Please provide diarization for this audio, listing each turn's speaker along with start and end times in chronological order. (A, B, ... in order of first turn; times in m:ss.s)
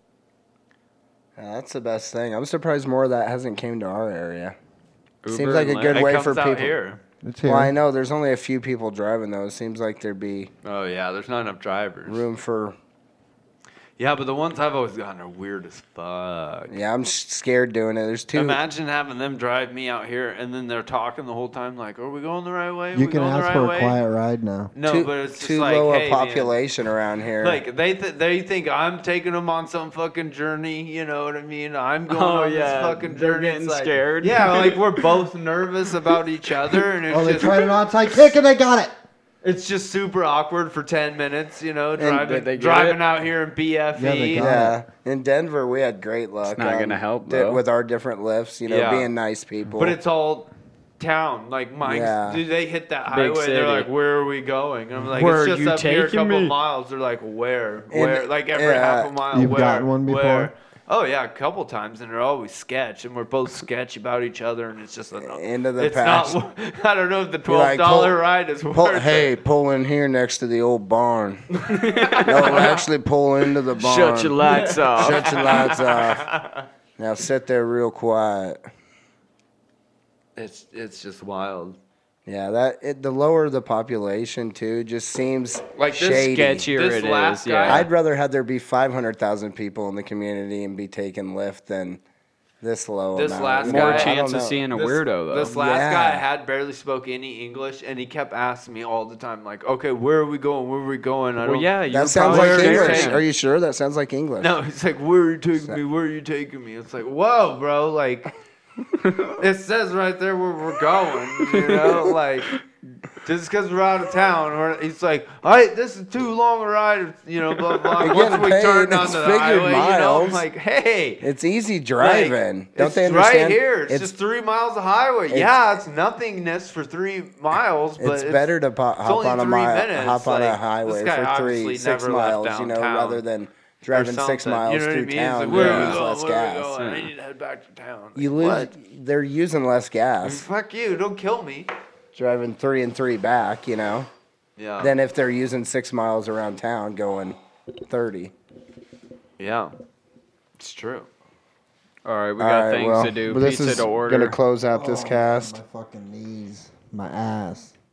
0:01.4-0:04.6 A
0:05.2-0:07.0 B
0:05.2-0:06.8 A
0:07.2-0:07.7 C
0:07.4-0:10.5 A
0:10.6-0:12.2 B
0:12.0-0:12.8 A
0:14.0-0:16.7 B
0:16.7-0:18.6 A
0:18.3-0:24.0 B
0:22.9-0:24.7 C
0:24.7-0:26.5 B
0:24.8-0:27.6 A
0:27.4-0:37.8 B
0:32.1-0:35.0 D
0:37.1-0:38.9 C
0:39.4-0:44.4 B
0:42.0-0:42.4 A
0:42.2-0:43.0 D
0:44.0-0:44.8 C
0:44.3-0:50.0 A
0:46.4-0:47.6 D
0:48.6-0:49.1 B
0:49.7-1:09.3 B
0:51.8-0:52.4 A
0:53.1-0:53.9 D
0:55.1-0:56.5 D
0:57.9-0:59.2 A
0:59.3-1:00.5 C
1:05.2-1:06.3 A
1:07.5-1:08.2 A
1:08.7-1:14.4 A
1:11.6-1:12.8 D
1:12.1-1:12.8 B
1:13.8-1:15.8 D
1:14.5-1:16.6 B
1:15.0-1:16.3 A
1:17.0-1:18.6 A
1:20.4-1:21.8 B
1:22.2-1:26.6 A
1:25.8-1:27.9 B
1:26.0-1:27.9 D
1:27.7-1:32.0 A
1:32.6-1:34.6 A
1:33.1-1:43.2 B
1:33.6-1:35.6 D
1:35.5-1:36.2 A
1:41.4-1:43.2 D
1:41.9-1:44.5 A
1:44.4-1:48.3 B
1:49.0-1:49.4 D
1:49.3-1:52.6 B
1:51.5-1:52.6 D
1:53.2-2:01.2 B
1:57.8-1:58.2 D
1:58.0-2:00.4 A
2:01.2-2:04.1 A
2:02.0-2:13.2 B
2:05.3-2:05.8 A
2:08.0-2:16.7 A
2:13.9-2:18.7 B
2:15.5-2:16.0 D
2:16.8-2:17.1 D
2:18.2-2:20.4 A
2:20.2-2:21.7 B
2:22.1-2:24.1 A
2:24.6-2:24.9 B
2:24.8-2:28.3 A
2:29.4-2:29.7 B
2:30.6-2:31.1 B
2:32.0-2:34.4 D
2:32.4-2:35.6 A
2:34.7-2:37.7 C